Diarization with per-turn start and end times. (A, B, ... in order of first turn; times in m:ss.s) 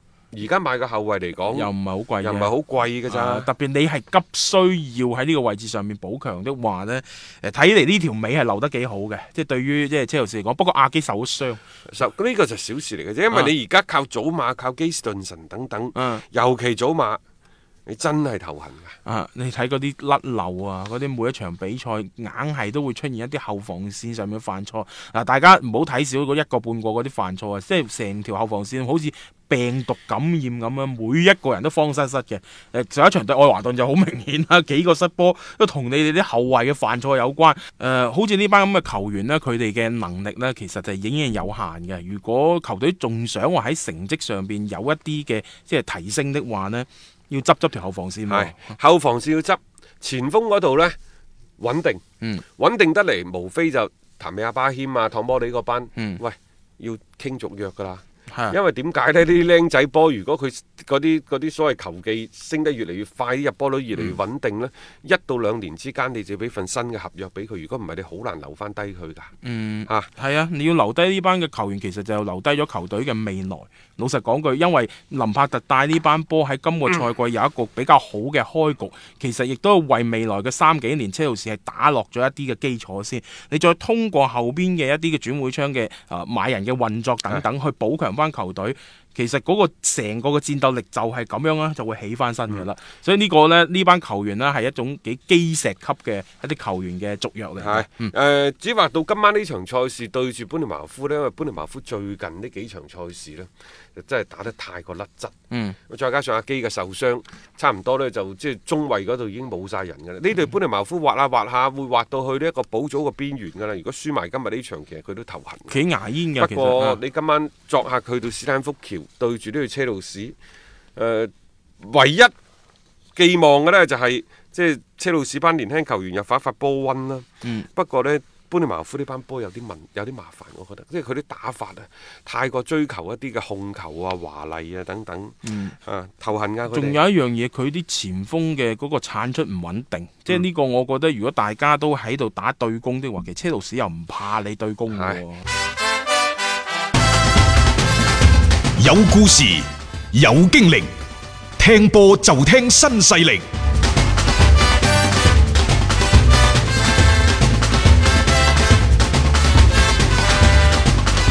0:00.3-0:03.5 A
0:01.5-0:02.5 B
0:03.1-0:11.6 B
0:11.9-0:17.2 A
0:16.0-0:16.2 B
0:17.9-0:18.9 A
0:19.0-0:48.7 B
0:48.3-0:51.0 A
0:51.6-0:52.0 A
0:52.6-1:09.3 A
1:09.4-1:38.1 B
1:37.6-1:45.3 A
1:45.5-1:45.8 B
1:45.9-1:55.8 A
1:55.7-1:57.0 B
1:56.4-2:00.3 A
2:01.0-2:02.3 A
2:03.2-2:17.0 A
2:15.4-2:15.8 B
2:16.7-2:25.4 B
2:24.9-2:25.2 A
2:28.8-2:30.9 C
2:31.6-2:33.4 C